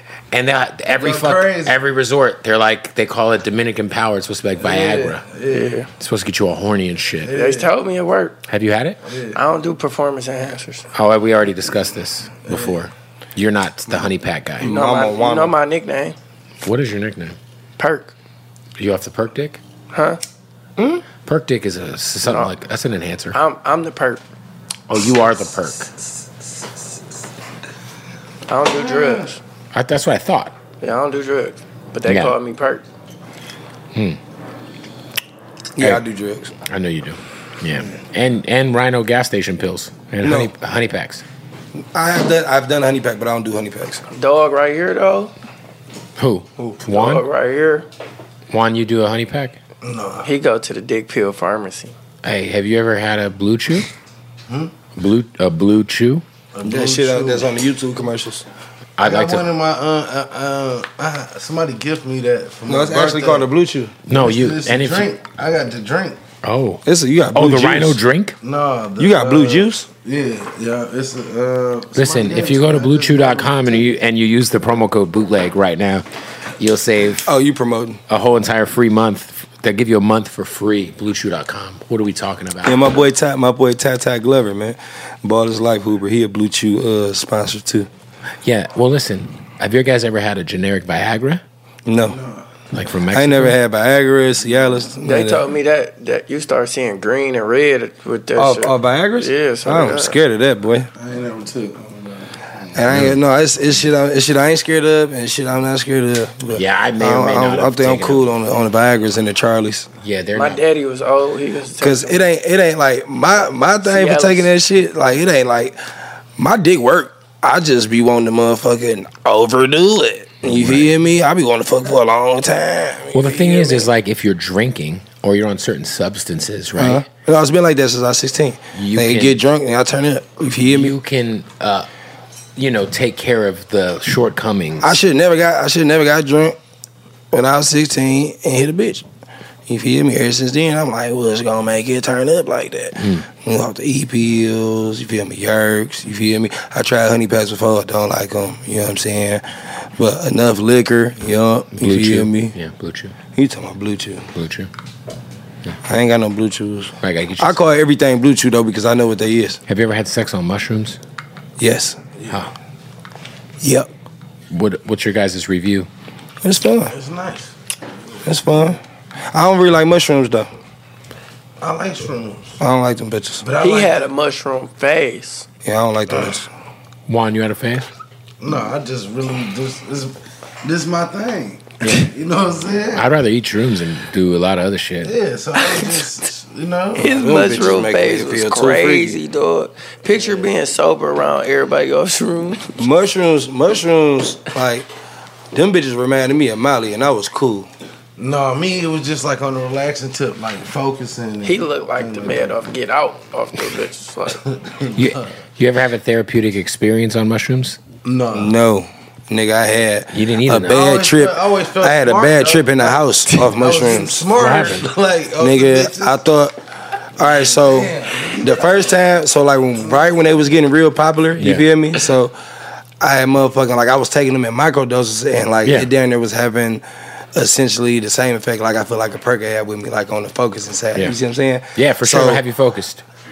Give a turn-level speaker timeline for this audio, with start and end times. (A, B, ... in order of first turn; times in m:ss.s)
0:00.3-0:05.2 A
0:00.9-0:01.8 B
0:04.6-0:05.8 B
0:05.5-0:05.9 C
0:06.0-0:07.3 A
0:07.2-0:07.7 B
0:07.3-0:08.4 C
0:08.5-0:09.0 A
0:09.0-0:09.4 B
0:09.3-0:10.8 C
0:10.9-0:14.7 A
0:12.5-0:12.8 B
0:14.6-0:15.6 D
0:14.6-0:16.2 C
0:16.6-0:17.4 A
0:17.8-0:18.1 C
0:18.8-0:19.6 A
0:19.9-0:20.2 C
0:21.2-0:23.4 A
0:22.2-0:22.5 C
0:23.3-0:24.2 C
0:24.9-0:25.9 A
0:28.5-0:29.4 C
0:28.7-0:29.3 B
0:29.7-0:30.5 A
0:30.8-0:32.8 C
0:32.1-0:32.4 A
0:35.8-0:36.5 D
0:36.7-0:41.2 A
0:40.2-0:40.5 D
0:41.9-0:44.0 D
0:44.1-0:45.3 C
0:46.2-0:47.2 A
0:46.8-0:47.9 C
0:48.5-0:49.6 A
0:49.8-0:50.3 B
0:50.2-0:51.9 C
0:52.2-0:53.9 A
0:54.5-0:54.7 B
0:55.0-0:56.2 A
0:56.6-0:57.5 B
0:56.6-0:58.4 D
0:59.0-0:59.5 A
0:59.0-1:03.5 B
1:02.7-1:04.0 D
1:04.1-1:05.1 A
1:04.1-1:06.2 B
1:06.4-1:08.4 A
1:06.8-1:08.0 D
1:08.4-1:13.9 B
1:09.0-1:09.9 D
1:11.9-1:16.0 A
1:16.6-1:17.3 A
1:17.2-1:18.0 D
1:18.1-1:22.9 A
1:22.6-1:27.9 D
1:28.4-1:31.4 A
1:31.9-1:32.2 D
1:32.1-1:32.5 B
1:32.7-1:33.6 A
1:33.1-1:35.5 D
1:35.0-1:40.2 C
1:38.4-1:40.9 D
1:41.0-1:42.8 B
1:42.7-1:49.9 D
1:42.9-1:43.2 A
1:46.5-1:48.3 A
1:50.0-1:50.6 A
1:50.4-1:52.3 C
1:51.8-1:55.8 D
1:53.8-1:54.5 C
1:56.4-2:03.9 D
2:00.4-2:00.9 A
2:03.1-2:07.0 A
2:06.8-2:10.9 D
2:08.7-2:09.4 A
2:10.6-2:11.9 A
2:12.6-2:15.0 A
2:14.8-2:16.6 D
2:17.3-2:19.1 D
2:19.7-2:32.6 D
2:23.0-2:23.2 A
2:31.8-2:33.2 A
2:33.4-2:34.3 D
2:34.3-2:34.7 A
2:35.9-2:39.6 D
2:37.0-2:37.7 A
2:39.7-2:41.0 A
2:41.6-2:42.0 D
2:42.3-2:42.5 A
2:43.6-2:43.9 D
2:44.5-2:45.9 A
2:46.4-2:46.9 D
2:46.9-2:47.5 B
2:48.2-2:48.8 D
2:49.3-2:50.5 D
2:51.6-2:52.6 B
2:52.6-2:53.4 D
2:53.4-2:54.1 B
2:53.6-2:55.5 C
2:55.6-2:56.5 D
2:57.1-2:57.9 A
2:58.4-3:03.0 B
3:01.8-3:02.1 A
3:02.9-3:05.2 A
3:05.0-3:07.4 B
3:05.6-3:06.0 C
3:07.0-3:12.8 C
3:07.2-3:09.2 D
3:10.2-3:10.5 B
3:12.8-3:14.9 D
3:15.5-3:17.7 D
3:18.2-3:22.6 B
3:21.4-3:24.4 C
3:24.5-3:25.3 B
3:25.0-3:27.8 A
3:28.0-3:28.6 B
3:28.3-3:34.3 D
3:30.1-3:30.8 A
3:30.6-3:36.2 B
3:34.4-3:34.9 A
3:35.4-3:36.6 D
3:37.2-3:42.4 D
3:37.2-3:38.9 B
3:41.4-3:41.7 A
3:43.0-3:46.8 D
3:47.3-3:52.4 D
3:51.8-3:53.0 A